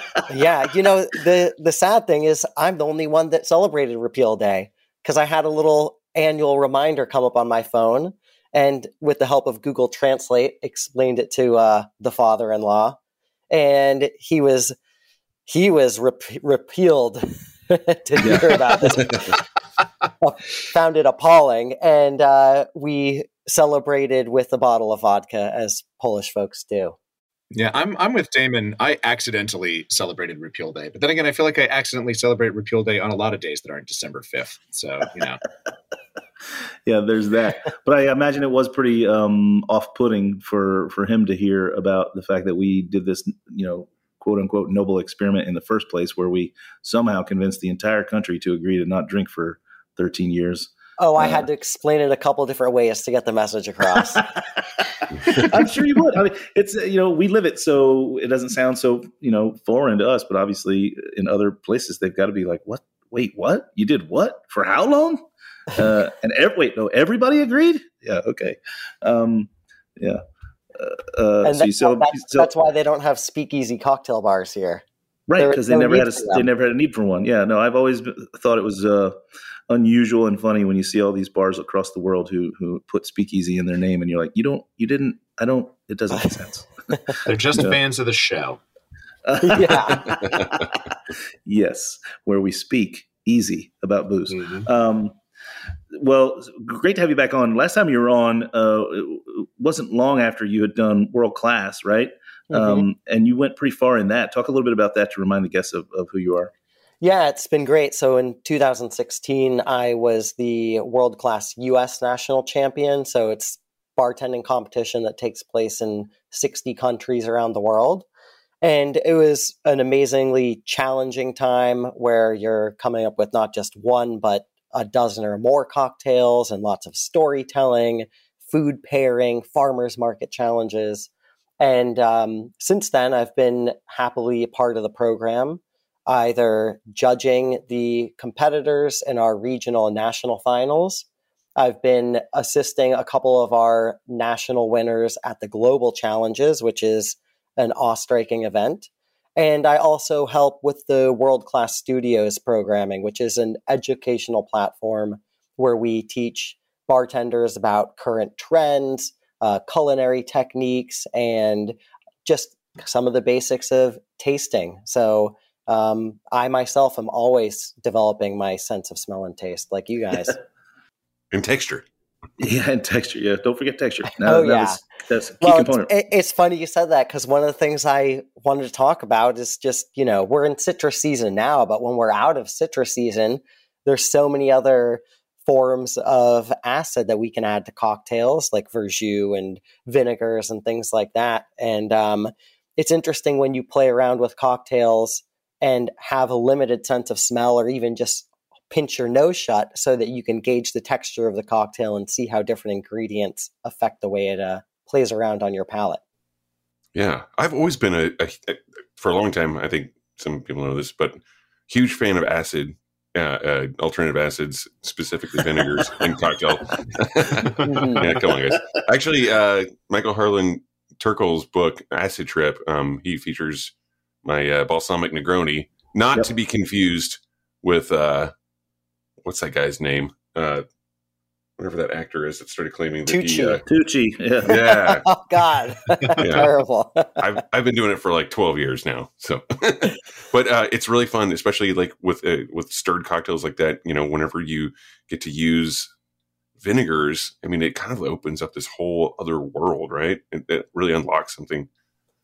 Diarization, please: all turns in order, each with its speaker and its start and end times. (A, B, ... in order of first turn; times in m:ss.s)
0:00.3-0:13.0 A
0:13.5-0:14.8 A
0:15.5-0:19.3 A
0:18.2-0:18.5 B
0:20.2-0:26.9 A
0:27.5-0:35.4 C
0:36.9-0:51.4 B
0:51.0-0:54.2 A
0:55.3-1:05.2 B
1:05.8-1:10.2 B
1:10.7-1:12.5 B
1:11.4-1:14.8 A
1:15.3-1:19.2 B
1:15.4-1:16.5 A
1:19.7-1:26.7 B
1:27.2-1:28.6 C
1:29.2-1:30.9 B
1:29.4-1:30.2 A
1:31.4-1:35.2 B
1:34.3-1:34.6 C
1:35.9-1:46.5 B
1:42.5-1:42.9 A
1:47.0-1:58.0 A
1:58.6-2:11.1 A
2:11.6-2:21.0 A
2:21.6-2:50.4 A
2:51.3-2:51.9 D
2:52.4-2:55.9 B
2:54.2-2:54.8 A
2:55.4-3:26.0 A
3:26.9-3:43.7 D
3:37.7-3:38.0 A
3:38.0-3:38.6 B
3:44.2-3:48.3 D
3:49.2-3:50.6 D
3:51.6-3:53.6 D
3:53.1-3:53.6 A
3:53.7-3:54.6 B
3:54.5-3:55.0 D
3:54.5-3:57.1 A
3:56.2-3:56.5 D
3:57.2-4:05.9 D
4:06.6-4:11.7 D